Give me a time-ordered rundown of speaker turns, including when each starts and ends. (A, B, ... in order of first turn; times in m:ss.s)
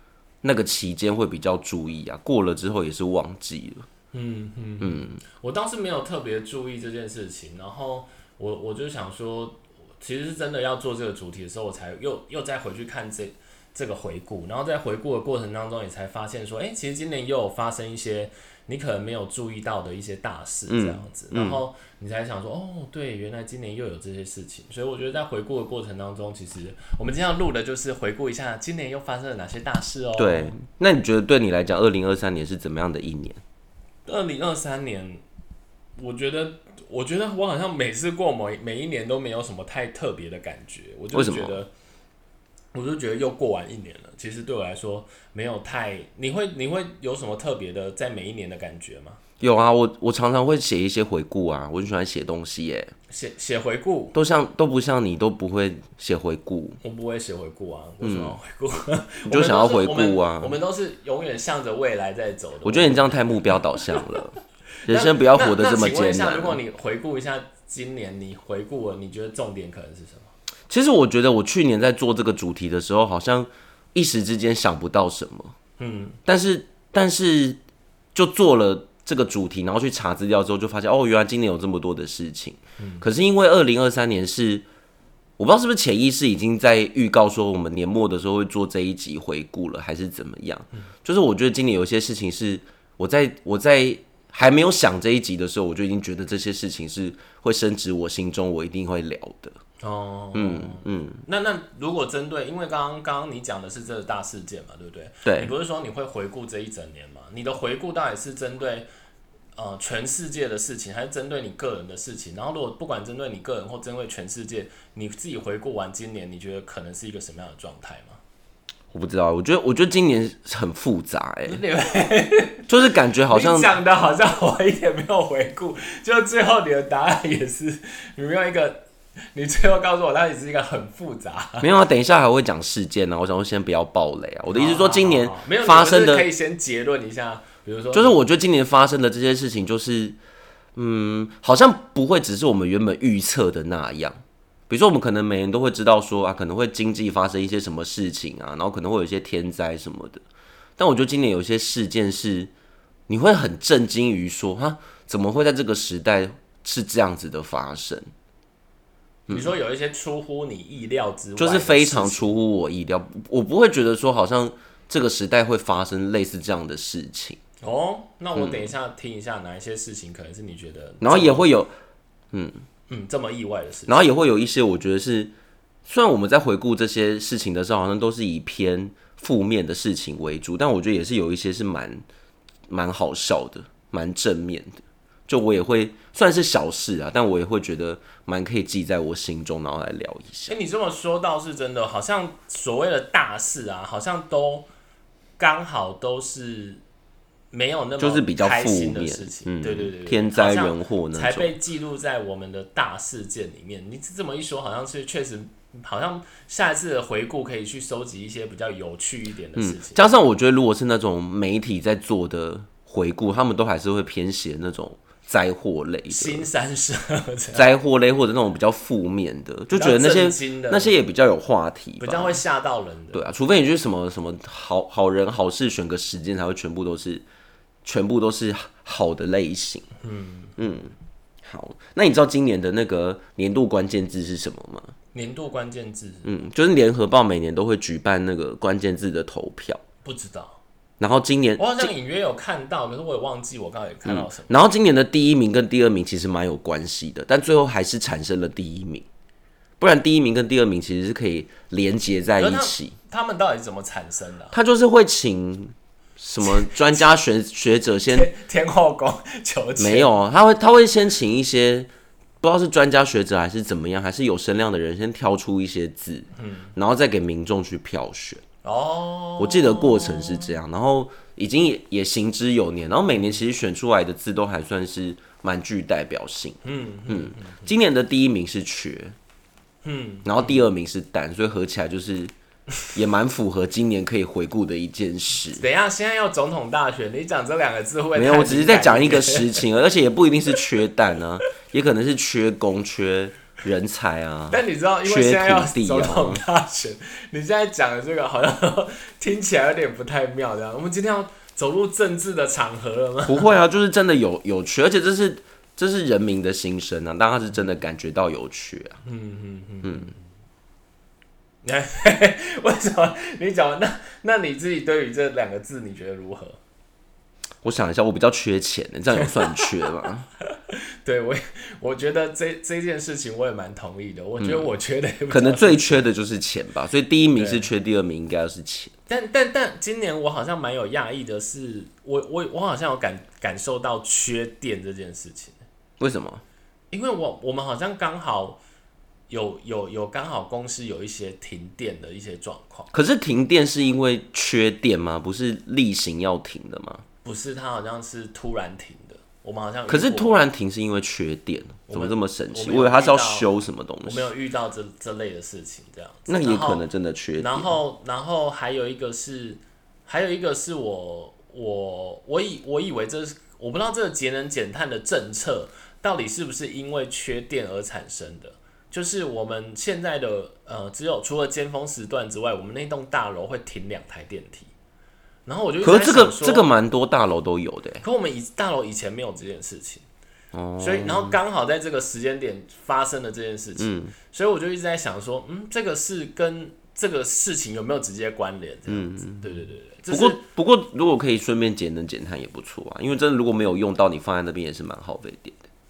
0:00.4-0:03.8 A
0:04.1-0:30.5 B
0:04.8-0:05.2 A
0:20.7-0:21.6 A
0:30.2-0:33.4 A
0:34.0-0:35.2 B
0:36.0-0:41.7 B
0:41.1-0:41.6 A
0:42.7-0:49.2 B
0:49.4-0:52.9 A
0:53.1-0:54.2 B
0:54.1-0:56.8 A
0:56.8-1:04.0 B
0:58.0-0:58.4 A
0:59.3-1:00.6 A
1:02.6-1:06.6 A
1:04.9-1:10.3 B
1:10.7-1:15.5 A
1:15.8-1:16.2 B
1:16.2-1:17.6 A
1:18.1-1:24.6 A
1:22.8-1:23.0 B
1:25.4-1:39.6 A
1:39.8-1:48.9 B
1:40.3-1:41.2 A
1:45.2-1:45.5 A
1:49.5-1:58.2 B
1:58.9-2:01.6 A
2:01.5-2:02.7 B
2:02.7-2:03.7 A
2:03.3-2:11.7 B
2:11.6-2:16.3 A
2:14.5-2:18.2 B
2:17.9-2:20.2 A
2:20.8-2:30.2 A
2:30.8-2:32.5 A
2:33.1-2:38.1 A
2:39.3-2:39.5 A
2:39.3-2:42.3 B
2:41.4-2:47.4 A
2:47.6-2:51.5 B
2:48.3-2:48.7 A
2:51.0-2:51.7 A
2:52.3-2:52.6 A
2:52.9-2:54.0 B
2:53.9-2:55.3 A
2:55.8-3:02.0 A
3:02.7-3:10.5 A
3:10.5-3:14.7 B
3:15.4-3:16.8 B
3:17.5-3:30.2 B
3:18.0-3:21.6 A
3:29.6-3:36.5 A
3:36.1-3:37.7 B
3:37.5-3:42.4 A
3:39.7-3:40.9 B
3:42.0-3:43.2 B
3:43.1-3:47.2 A
3:47.8-3:49.9 A
3:50.0-3:50.6 B
3:50.6-3:54.9 A
3:55.1-3:56.3 B
3:56.2-3:59.8 A
4:00.0-4:00.6 B
4:01.0-4:01.9 A
4:01.6-4:04.6 B
4:04.0-4:09.0 A
4:09.8-4:13.0 A
4:12.4-4:14.5 B
4:14.5-4:18.3 A
4:16.4-4:16.7 B
4:18.1-4:20.1 B
4:19.8-4:21.9 A
4:22.4-4:28.4 A
4:26.4-4:26.7 B
4:28.6-4:30.5 B
4:29.4-4:39.1 A
4:36.6-4:37.7 B
4:39.8-4:40.6 B
4:40.2-4:42.3 A
4:42.9-4:45.6 A
4:45.5-4:49.6 B
4:48.1-4:56.4 A
4:54.5-5:03.5 B
5:03.2-5:09.0 A
5:09.0-5:10.2 B
5:09.8-5:10.1 A
5:11.6-5:16.6 B
5:17.6-5:20.3 A
5:19.1-5:19.7 B
5:20.4-5:26.0 B
5:24.4-5:24.7 A
5:25.3-5:28.9 A
5:27.4-5:27.7 B
5:29.1-5:35.6 B
5:36.0-5:36.4 A
5:36.9-5:38.6 B
5:39.3-5:42.9 B
5:42.9-5:47.0 A
5:47.2-5:50.3 B
5:49.9-5:54.3 A
5:51.9-5:53.5 B
5:54.0-5:56.8 B
5:56.3-5:57.8 A
5:57.4-6:14.7 B
6:15.4-6:16.7 B
6:15.8-6:18.0 A
6:18.0-6:20.0 B
6:20.5-6:21.4 A
6:20.8-6:30.4 B
6:23.8-6:24.1 A
6:28.9-6:35.6 A